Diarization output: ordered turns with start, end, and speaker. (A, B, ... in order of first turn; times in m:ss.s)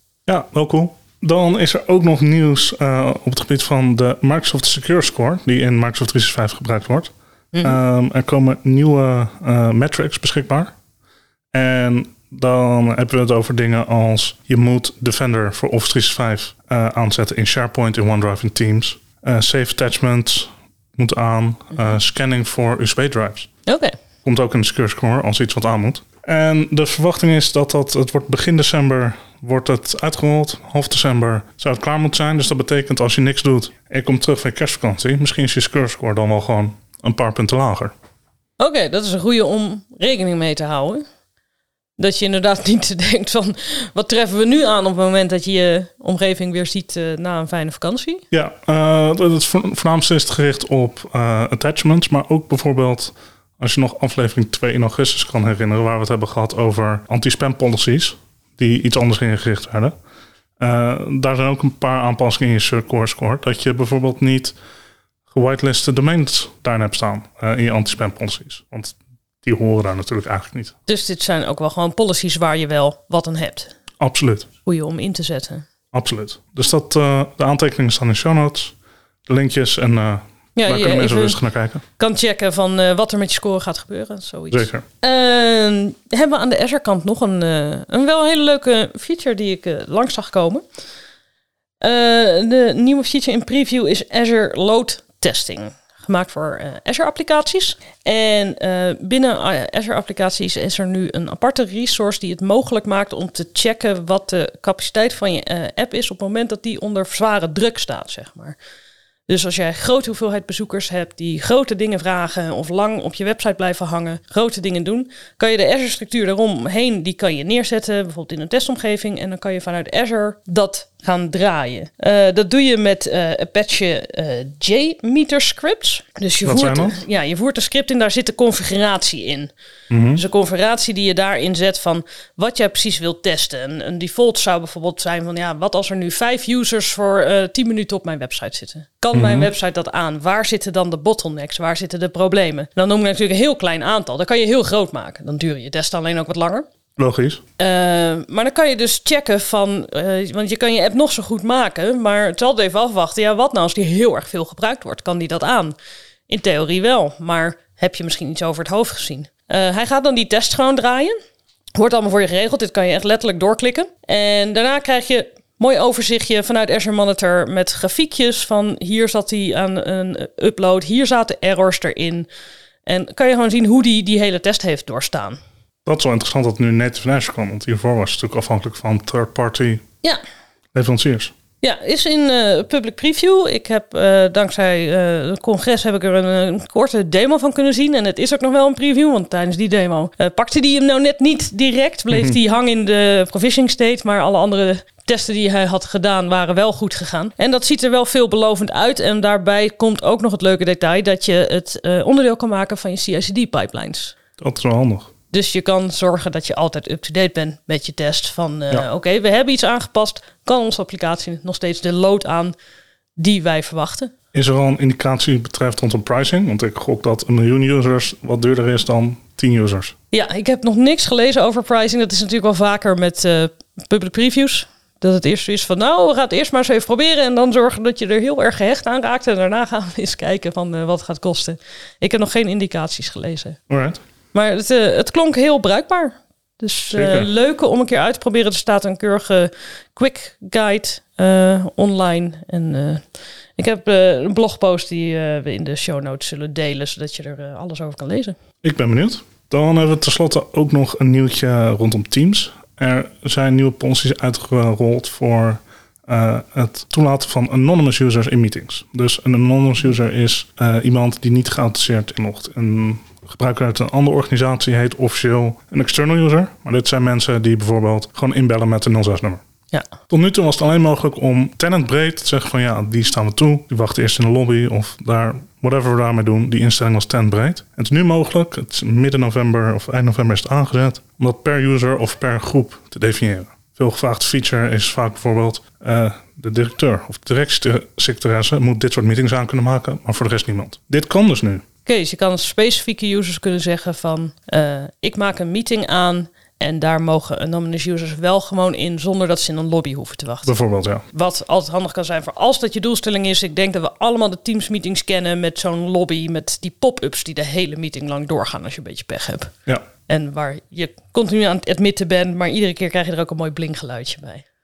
0:00.3-0:07.1 A
0:07.5-0:07.8 B
0:07.6-0:10.7 A
0:11.5-0:23.5 A
0:23.6-0:23.9 B
0:24.2-0:37.9 A
0:38.6-0:41.0 B
0:42.0-0:48.2 B
0:48.3-0:59.9 A
1:00.6-1:04.5 A
1:05.3-1:10.7 A
1:10.9-1:13.7 B
1:14.0-1:14.5 A
1:14.6-1:15.6 B
1:15.9-1:18.7 A
1:19.3-1:21.8 A
1:20.6-1:21.4 B
1:22.0-1:30.6 B
1:24.5-1:24.8 A
1:31.8-1:48.6 B
1:49.3-2:09.5 B
2:06.4-2:07.0 A
2:09.9-2:10.2 A
2:10.1-2:26.7 B
2:19.1-2:19.5 A
2:27.0-2:27.4 A
2:27.6-2:35.7 B
2:36.3-2:41.2 B
2:41.7-2:52.3 B
2:52.8-2:55.4 B
2:55.8-2:59.8 A
3:00.7-3:01.3 A
3:01.6-3:24.2 B
3:12.1-3:12.4 A
3:24.4-3:25.1 A
3:25.3-3:32.5 B
3:33.2-3:34.1 B
3:34.3-3:39.9 A
3:40.1-3:53.6 B
3:53.7-3:54.0 A
3:54.3-4:08.4 B
3:56.9-3:57.3 A
4:08.6-4:29.4 A
4:30.1-4:51.6 A
4:51.8-5:00.5 B
5:00.4-5:01.0 A
5:01.1-5:09.5 B
5:10.1-5:14.4 B